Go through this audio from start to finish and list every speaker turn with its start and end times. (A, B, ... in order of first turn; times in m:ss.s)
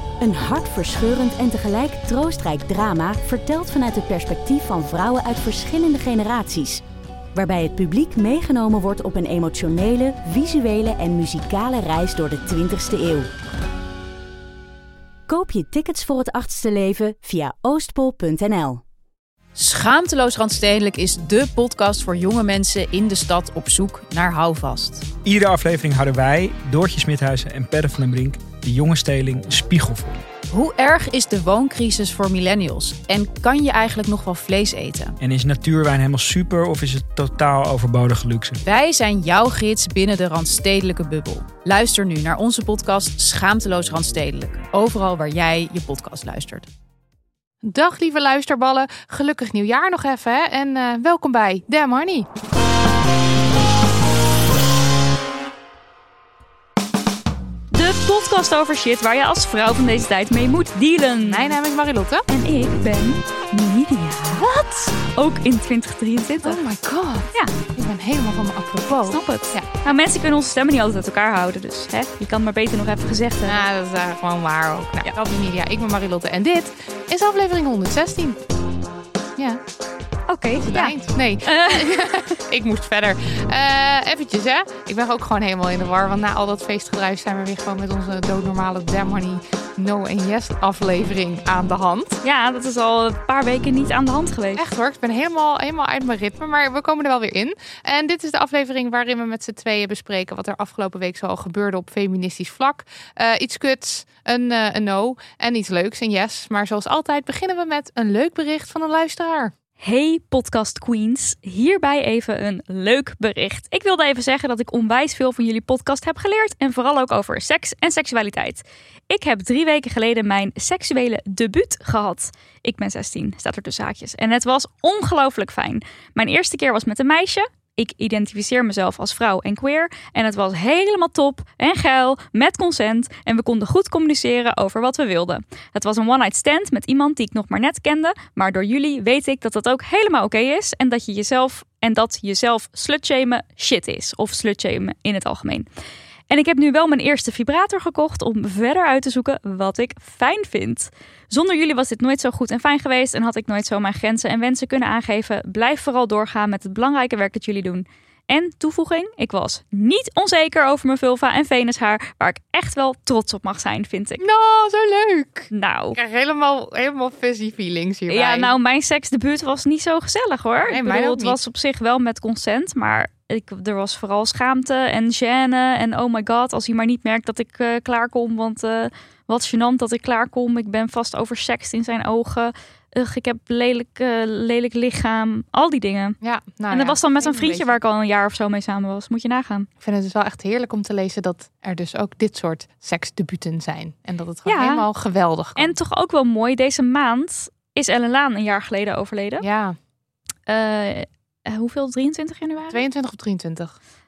0:00.2-0:06.8 A
0:07.3-0:13.3 A
0:15.3-0:18.8 A
0:19.5-0:25.1 B
0:25.2-0:30.2 C
0:30.5-0:35.2 B
0:35.2-0:38.6 C
0:38.6-0:46.7 B
0:47.6-0:52.3 D
0:57.7-1:01.6 E
1:01.2-1:02.3 D
1:02.3-1:06.6 E
1:06.4-1:10.0 D
1:09.1-1:13.6 E
1:13.4-1:18.4 D
1:20.3-1:22.3 E
1:20.6-1:32.2 D
1:32.2-1:34.6 E
1:34.6-1:49.5 D
1:49.8-2:25.6 E
2:26.3-2:44.2 E
2:44.2-2:48.5 D
2:45.5-2:46.0 E
2:48.1-3:06.2 E
2:50.6-2:51.4 D
3:06.2-3:07.8 D
3:06.7-3:09.7 E
3:09.8-3:15.7 D
3:14.4-3:14.8 E
3:15.6-3:19.4 E
3:19.4-3:19.8 D
3:20.5-3:22.8 E
3:22.7-3:23.8 D